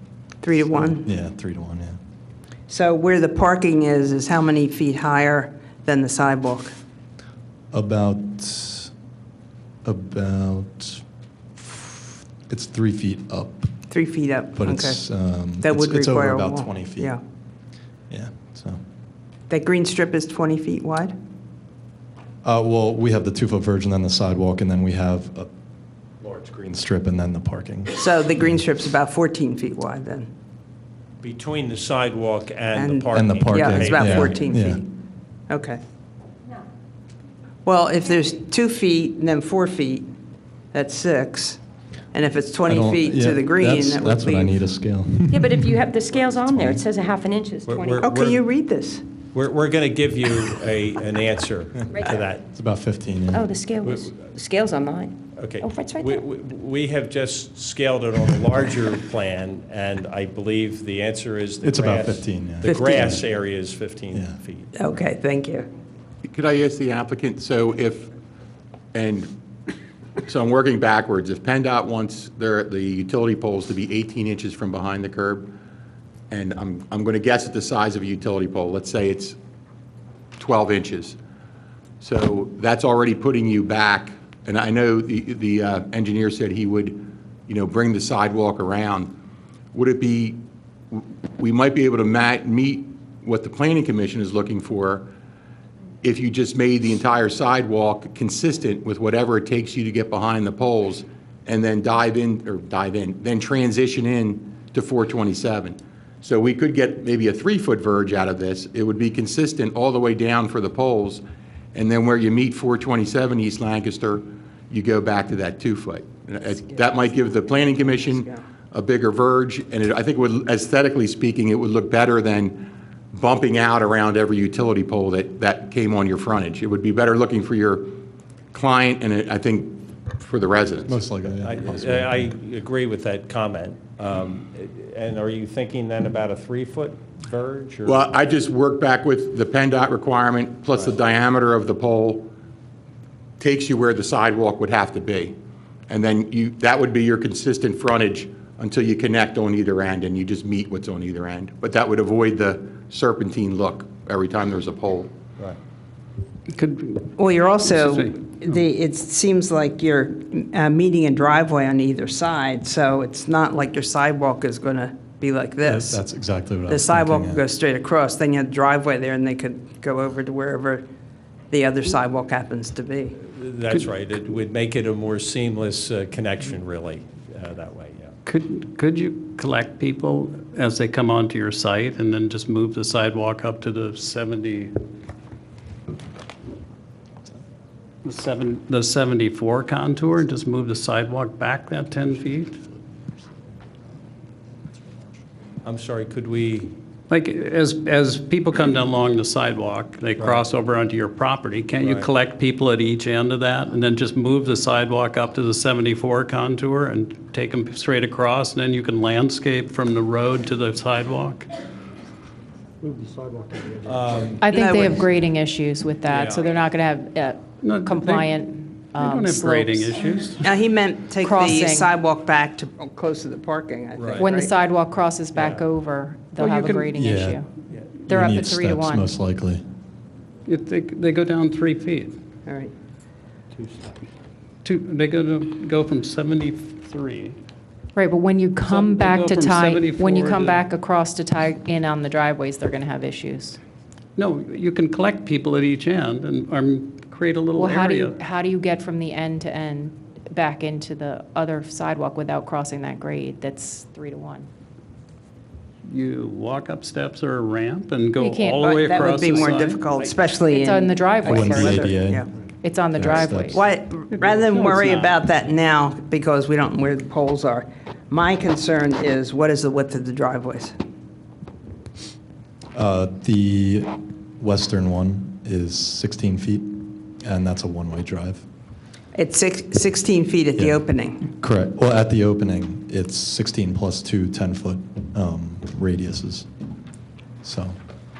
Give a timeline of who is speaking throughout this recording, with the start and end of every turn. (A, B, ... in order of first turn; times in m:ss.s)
0:00.4-0:01.0 A
0:00.6-0:02.0 B
0:02.7-0:06.7 A
0:07.7-0:08.9 B
0:09.8-0:11.0 B
0:11.6-0:13.8 B
0:13.9-0:15.0 A
0:14.5-0:17.2 B
0:15.6-0:17.2 A
0:18.1-0:18.8 B
0:19.5-0:21.1 A
0:22.4-0:25.5 B
0:26.2-0:28.4 B
0:28.0-0:30.3 A
0:31.2-0:34.5 C
0:32.7-0:34.9 A
0:33.1-0:34.8 B
0:35.5-0:35.8 A
0:37.6-0:40.1 A
0:40.7-0:41.6 A
0:42.1-0:44.6 A
0:42.7-0:45.5 B
0:45.3-0:48.1 D
0:47.7-0:48.4 C
0:48.0-0:49.0 A
0:49.3-0:52.4 C
0:51.9-0:52.2 D
0:52.5-0:53.5 B
0:53.3-0:56.2 D
0:53.8-0:54.3 C
0:55.4-1:04.7 C
1:01.6-1:03.2 B
1:02.6-1:03.1 A
1:04.8-1:05.7 A
1:06.2-1:08.1 E
1:08.9-1:09.3 E
1:10.3-1:15.5 E
1:16.3-1:19.4 E
1:20.4-1:21.2 E
1:22.0-1:29.1 E
1:29.7-1:30.4 E
1:30.9-1:35.1 E
1:36.0-1:51.2 E
1:51.7-2:11.0 E
1:56.6-1:58.4 A
2:10.9-2:12.3 B
2:11.4-2:18.1 C
2:17.8-2:22.3 E
2:23.4-2:25.3 E
2:25.9-2:35.1 E
2:36.5-2:38.5 F
2:37.2-2:46.0 A
2:45.6-2:47.4 B
2:46.7-2:50.8 A
2:51.5-2:53.2 A
2:53.2-2:58.2 C
2:58.2-3:04.7 F
3:08.0-3:12.6 F
3:15.6-3:16.7 C
3:17.1-3:31.4 F
3:21.8-3:22.1 C
3:33.8-3:34.4 C
3:34.4-3:40.0 G
3:34.5-3:35.0 A
3:36.0-3:36.6 C
3:37.6-3:40.4 F
3:40.4-3:44.5 A
3:41.1-3:42.0 G
3:44.0-3:44.3 C
3:44.1-3:47.4 G
3:45.3-3:45.6 C
3:46.3-3:46.9 F
3:47.0-3:47.4 B
3:48.1-3:49.1 G
3:48.1-3:49.6 B
3:50.4-3:52.1 F
3:52.4-3:52.7 A
3:54.6-3:57.4 F
3:57.9-4:03.6 G
3:58.7-4:00.6 F
4:04.2-4:08.2 F
4:07.6-4:14.5 G
4:15.8-4:20.1 F
4:18.2-4:18.7 G
4:18.6-4:22.3 A
4:20.4-4:21.8 G
4:21.2-4:22.2 B
4:21.4-4:21.8 F
4:22.6-4:23.6 G
4:22.9-4:23.6 B
4:23.5-4:30.8 A
4:24.1-4:25.1 F
4:32.8-4:38.4 B
4:39.1-4:41.2 A
4:40.6-4:46.5 B
4:47.4-4:47.8 B